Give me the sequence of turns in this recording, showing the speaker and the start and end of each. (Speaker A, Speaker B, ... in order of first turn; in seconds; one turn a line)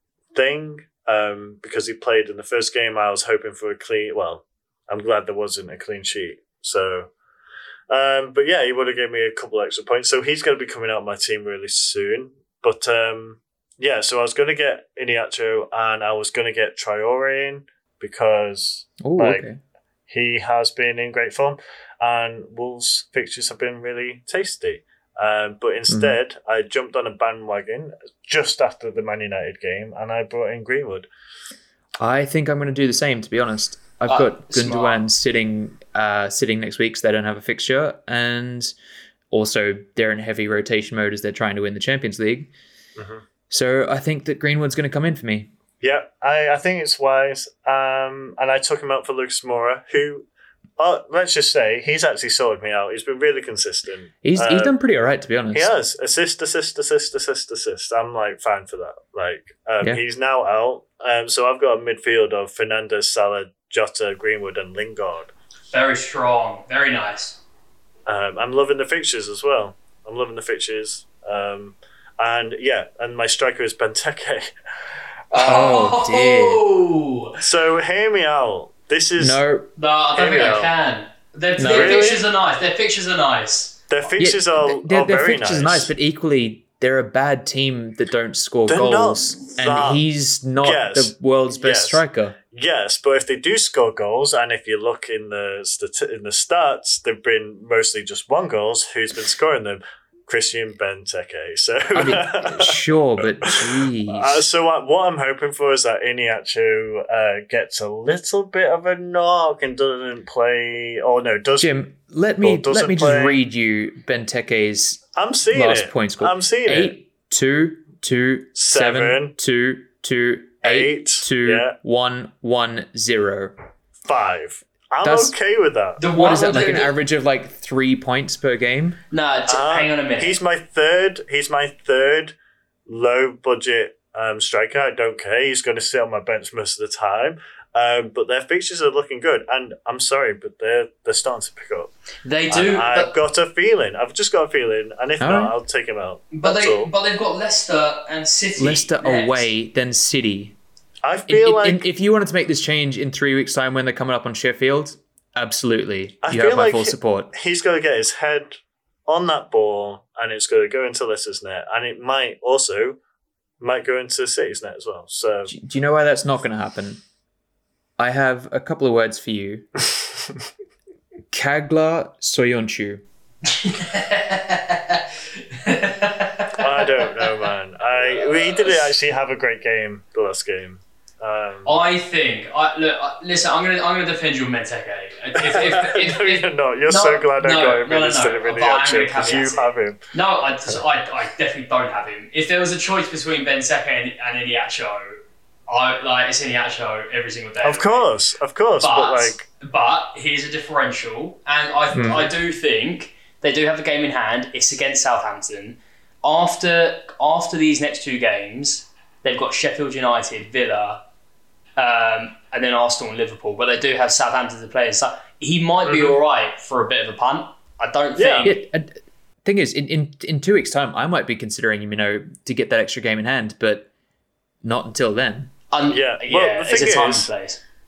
Speaker A: 0.3-7.1
Speaker A: 7.9-19.5
Speaker B: 19.0-19.6
Speaker A: 20.1-31.1
Speaker B: 25.9-26.2
Speaker B: 32.0-38.7
Speaker C: 34.1-35.0
Speaker B: 39.3-42.5
Speaker A: 43.0-43.2
Speaker B: 43.5-45.5
Speaker A: 45.8-50.3
Speaker A: 50.8-54.7
Speaker B: 54.2-55.7
Speaker A: 55.5-65.3
Speaker C: 65.7-67.4
Speaker A: 68.1-74.5
Speaker C: 75.3-77.4
Speaker A: 75.3-75.7
Speaker B: 75.4-76.6
Speaker A: 77.4-79.4
Speaker B: 79.2-79.7
Speaker C: 79.8-83.9
Speaker A: 80.2-80.7
Speaker B: 81.6-82.0
Speaker A: 81.6-82.2
Speaker A: 83.9-85.9
Speaker B: 84.2-92.4
Speaker A: 88.7-90.0
Speaker A: 90.6-111.8
Speaker B: 101.9-104.4
Speaker B: 111.6-123.5
Speaker A: 112.4-113.4
Speaker A: 115.2-117.0
Speaker A: 118.5-119.3
Speaker A: 120.6-121.8
Speaker A: 124.1-126.0
Speaker B: 125.0-125.3
Speaker C: 126.0-126.9
Speaker B: 126.1-129.0
Speaker C: 129.1-130.4
Speaker A: 129.5-132.4
Speaker A: 132.9-141.9
Speaker C: 142.2-143.1
Speaker A: 142.5-146.9
Speaker B: 145.2-145.5
Speaker C: 146.3-149.5
Speaker B: 148.6-150.6
Speaker A: 151.0-151.9
Speaker B: 151.3-157.3
Speaker A: 156.2-163.0
Speaker A: 163.6-165.5
Speaker B: 165.5-167.0
Speaker B: 168.0-169.7
Speaker B: 171.3-173.0
Speaker C: 173.5-177.2
Speaker A: 176.6-181.8
Speaker C: 178.2-178.8
Speaker C: 181.7-195.1
Speaker A: 185.3-190.0
Speaker C: 195.7-198.1
Speaker A: 197.6-199.5
Speaker C: 198.8-211.0
Speaker B: 201.9-202.3
Speaker C: 211.8-218.6
Speaker A: 215.9-216.1
Speaker A: 218.2-218.5
Speaker B: 218.4-223.9
Speaker B: 224.6-225.5
Speaker C: 225.7-227.6
Speaker A: 225.9-227.3